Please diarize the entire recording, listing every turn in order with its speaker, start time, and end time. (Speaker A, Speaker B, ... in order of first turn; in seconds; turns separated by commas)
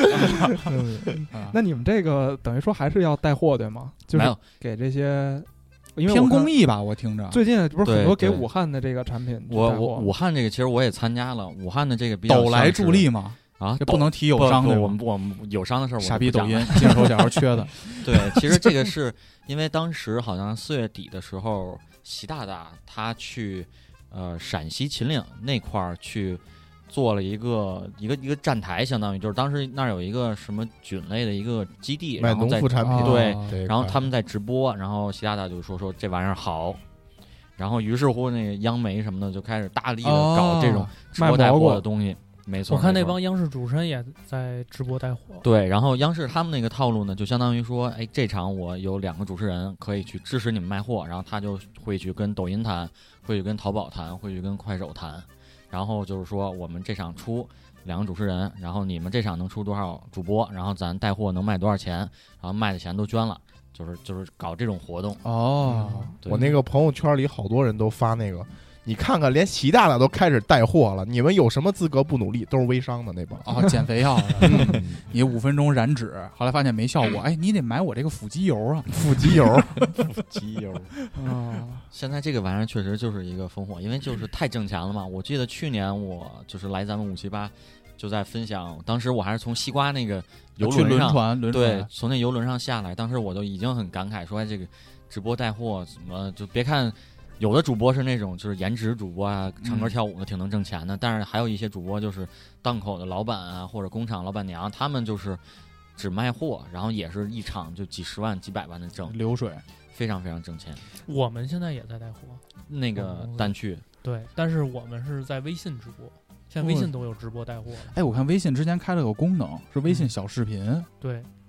Speaker A: 0.6-6.5, Speaker B: 1.3-1.6, Speaker C: 4.1-4.4, Speaker B: 6.0-7.4, Speaker A: 7.3-10.1, Speaker C: 7.8-8.5, Speaker C: 9.5-17.0, Speaker B: 12.3-15.0, Speaker B: 16.0-18.7, Speaker C: 17.9-36.8, Speaker D: 32.2-34.0, Speaker B: 32.8-33.6, Speaker C: 37.6-43.2, Speaker B: 40.0-41.0, Speaker A: 41.1-41.8, Speaker E: 42.7-45.4, Speaker C: 45.4-65.2, Speaker B: 65.2-66.3, Speaker A: 65.7-66.5, Speaker D: 66.2-73.5, Speaker B: 73.4-80.0, Speaker D: 74.4-74.8, Speaker C: 74.7-75.0, Speaker D: 78.9-79.7, Speaker C: 80.1-80.9, Speaker A: 81.1-81.8, Speaker C: 81.9-105.4, Speaker B: 90.6-91.9, Speaker B: 99.6-99.9, Speaker C: 106.0-109.2, Speaker B: 109.1-109.6, Speaker C: 109.9-110.8, Speaker E: 111.0-112.4, Speaker C: 112.7-113.8, Speaker E: 113.0-117.9, Speaker B: 116.6-116.9, Speaker B: 117.9-120.9, Speaker E: 121.0-121.3